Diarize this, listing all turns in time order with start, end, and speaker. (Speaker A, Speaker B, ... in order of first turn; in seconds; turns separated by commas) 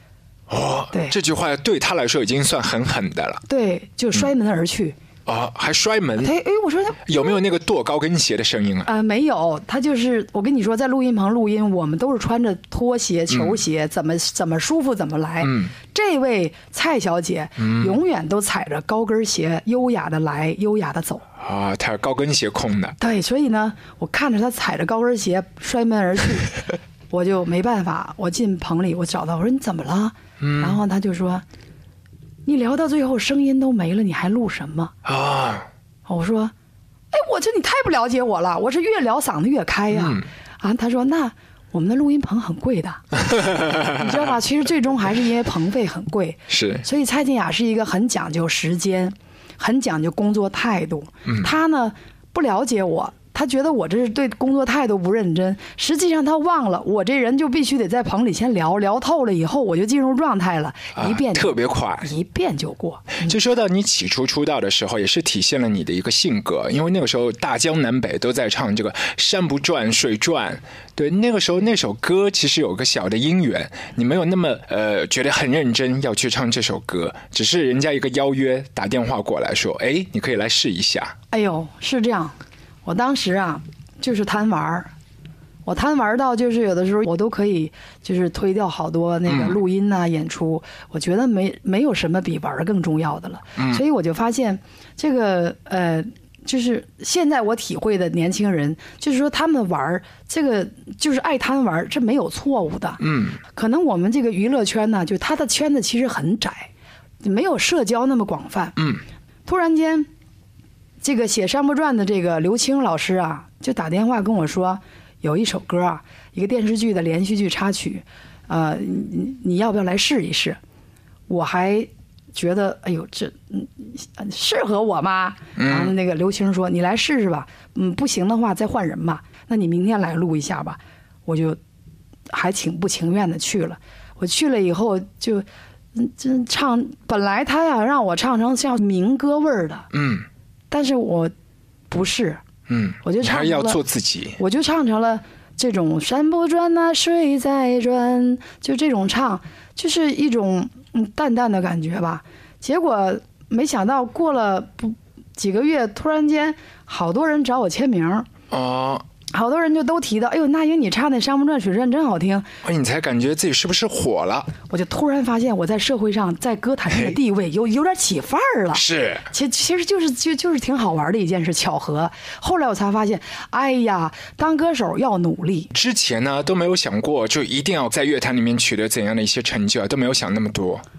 Speaker A: 0.5-3.4, Speaker B: 3.5-5.0, Speaker A: 5.2-6.3, Speaker B: 6.2-7.4, Speaker A: 7.0-8.9, Speaker B: 8.8-21.2, Speaker A: 13.3-13.6, Speaker A: 15.4-15.7, Speaker A: 17.6-17.9, Speaker A: 21.4-23.0, Speaker B: 23.0-31.4, Speaker A: 30.4-30.8, Speaker B: 32.4-34.9, Speaker A: 35.0-35.7, Speaker B: 36.1-36.5, Speaker B: 37.1-43.1, Speaker A: 39.9-40.2, Speaker B: 43.8-63.3, Speaker A: 46.5-46.8, Speaker A: 61.0-62.1, Speaker A: 63.2-81.1, Speaker B: 81.3-84.9, Speaker B: 85.6-106.7, Speaker A: 89.3-89.6, Speaker A: 103.0-103.4, Speaker B: 107.2-108.8, Speaker B: 109.5-110.1, Speaker B: 111.0-120.6, Speaker B: 121.3-131.6, Speaker A: 125.6-125.9, Speaker B: 132.3-139.9, Speaker A: 139.9-140.2, Speaker B: 140.7-141.3, Speaker B: 141.9-142.4, Speaker A: 142.7-144.4, Speaker B: 143.0-143.8, Speaker B: 144.4-158.3, Speaker A: 158.5-159.0, Speaker B: 159.3-162.5, Speaker A: 162.6-164.5, Speaker B: 164.7-175.7, Speaker A: 166.9-167.1, Speaker A: 168.7-169.2, Speaker A: 175.7-180.8